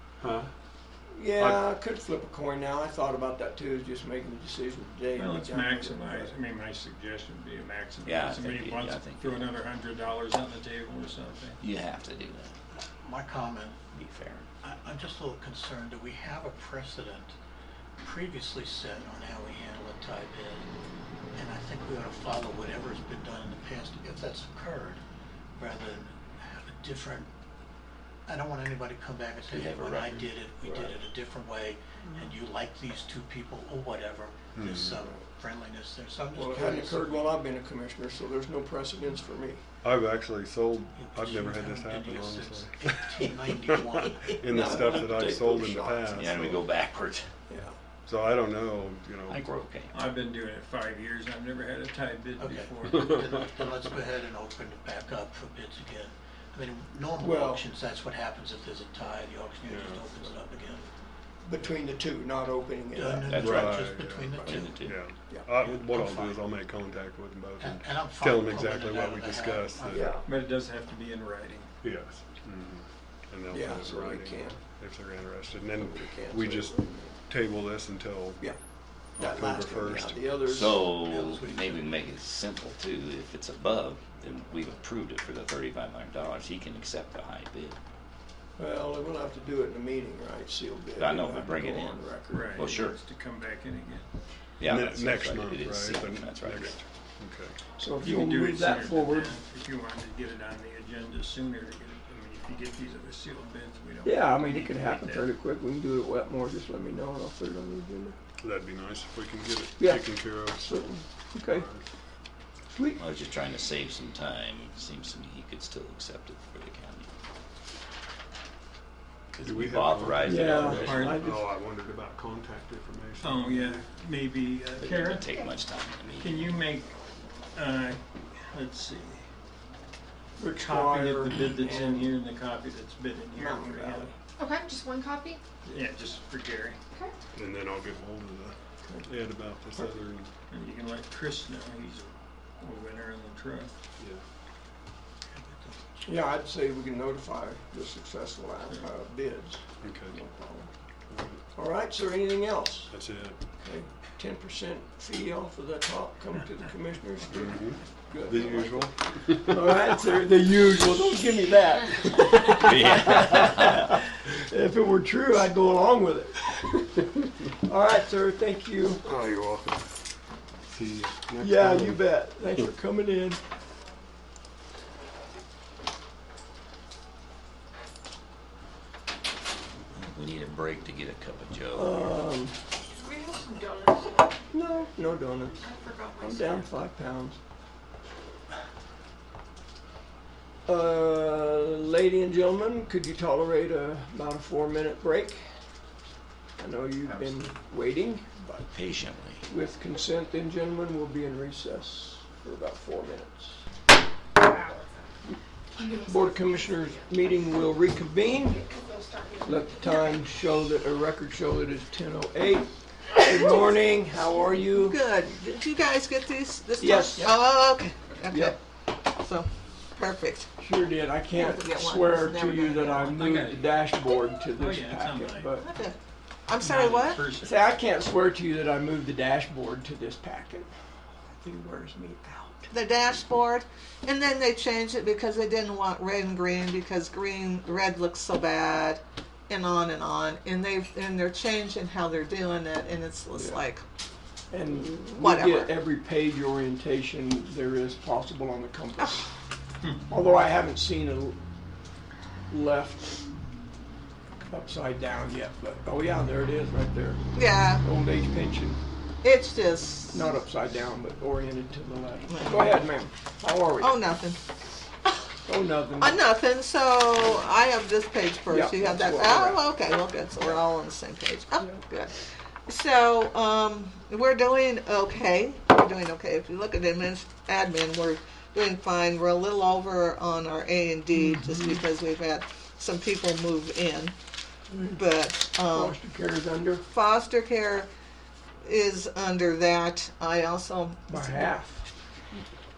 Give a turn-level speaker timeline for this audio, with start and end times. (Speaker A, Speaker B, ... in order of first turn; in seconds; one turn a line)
Speaker A: 0.2-0.5
Speaker B: 1.1-6.3
Speaker A: 1.4-1.6
Speaker C: 5.2-11.6
Speaker D: 8.1-9.5
Speaker D: 11.6-12.6
Speaker E: 12.8-13.8
Speaker D: 13.9-14.5
Speaker E: 14.6-17.4
Speaker E: 18.0-20.7
Speaker E: 21.3-25.0
Speaker E: 25.6-27.3
Speaker E: 28.3-37.3
Speaker D: 29.5-30.3
Speaker B: 30.6-31.0
Speaker A: 34.5-35.0
Speaker B: 36.3-39.6
Speaker A: 39.8-46.6
Speaker E: 41.0-45.0
Speaker B: 44.5-46.1
Speaker D: 46.1-47.3
Speaker B: 47.5-47.8
Speaker A: 48.1-49.5
Speaker D: 49.3-49.9
Speaker C: 49.9-53.1
Speaker E: 52.4-60.9
Speaker A: 53.0-53.4
Speaker B: 57.2-57.6
Speaker A: 59.6-60.2
Speaker B: 61.4-65.6
Speaker E: 62.9-65.1
Speaker A: 63.4-70.2
Speaker D: 64.4-65.1
Speaker E: 65.6-66.4
Speaker E: 67.6-70.2
Speaker B: 69.9-70.2
Speaker C: 70.2-71.7
Speaker A: 71.8-78.5
Speaker B: 73.5-74.6
Speaker B: 75.8-77.1
Speaker B: 79.2-80.9
Speaker A: 79.2-80.5
Speaker D: 80.5-87.8
Speaker E: 81.0-82.0
Speaker B: 88.6-92.8
Speaker D: 91.0-92.0
Speaker C: 92.3-94.1
Speaker D: 92.5-93.0
Speaker D: 94.6-96.8
Speaker A: 94.6-97.6
Speaker B: 97.8-99.4
Speaker C: 98.0-105.3
Speaker B: 104.0-108.2
Speaker A: 108.4-110.8
Speaker B: 109.8-111.7
Speaker A: 111.5-111.8
Speaker B: 112.7-113.0
Speaker D: 113.0-117.1
Speaker D: 119.4-120.8
Speaker A: 119.4-123.8
Speaker B: 120.2-121.5
Speaker C: 120.7-121.3
Speaker C: 123.2-125.4
Speaker D: 124.8-126.6
Speaker F: 125.2-125.5
Speaker C: 126.2-126.9
Speaker C: 127.5-129.3
Speaker B: 130.4-132.2
Speaker C: 130.5-134.1
Speaker B: 133.3-134.2
Speaker F: 134.4-135.4
Speaker C: 135.7-136.8
Speaker A: 137.3-140.3
Speaker B: 138.8-139.1
Speaker C: 140.5-143.8
Speaker E: 145.3-146.2
Speaker B: 146.1-150.7
Speaker A: 149.8-150.2
Speaker A: 151.1-151.5
Speaker B: 151.5-153.0
Speaker A: 152.9-153.4
Speaker B: 153.6-167.0
Speaker A: 157.3-159.9
Speaker D: 162.7-163.6
Speaker B: 167.5-169.1
Speaker A: 169.1-169.9
Speaker A: 170.7-172.0
Speaker B: 171.4-173.4
Speaker D: 179.9-182.2
Speaker B: 181.7-182.6
Speaker F: 182.9-184.3
Speaker B: 184.5-187.4
Speaker F: 185.6-186.6
Speaker B: 190.7-195.5
Speaker B: 196.6-198.7
Speaker D: 198.7-199.4
Speaker B: 199.5-203.6
Speaker F: 204.4-205.1
Speaker F: 205.8-207.1
Speaker B: 205.9-208.7
Speaker F: 208.5-210.4
Speaker B: 209.4-215.0
Speaker G: 213.3-213.6
Speaker G: 214.7-220.5
Speaker B: 216.8-217.5
Speaker B: 218.3-218.6
Speaker B: 220.6-225.7
Speaker G: 221.4-223.3
Speaker C: 223.1-223.9
Speaker C: 224.6-225.5
Speaker G: 225.6-227.2
Speaker C: 226.6-227.7
Speaker B: 227.3-230.7
Speaker B: 231.2-232.7
Speaker G: 232.7-243.8
Speaker B: 243.3-243.6
Speaker B: 244.5-249.3
Speaker G: 245.1-245.8
Speaker B: 250.1-251.4
Speaker B: 252.5-253.2
Speaker B: 254.5-258.8
Speaker G: 257.3-257.8
Speaker G: 259.2-260.3
Speaker B: 260.1-264.0
Speaker G: 262.3-262.7
Speaker G: 263.8-264.4
Speaker B: 265.4-266.3
Speaker G: 266.0-272.1
Speaker B: 268.5-269.7
Speaker G: 272.7-284.1
Speaker B: 281.1-281.8
Speaker B: 284.7-285.0
Speaker G: 284.8-286.0
Speaker B: 285.7-286.8
Speaker G: 286.9-287.9
Speaker G: 288.6-291.5
Speaker B: 291.1-291.9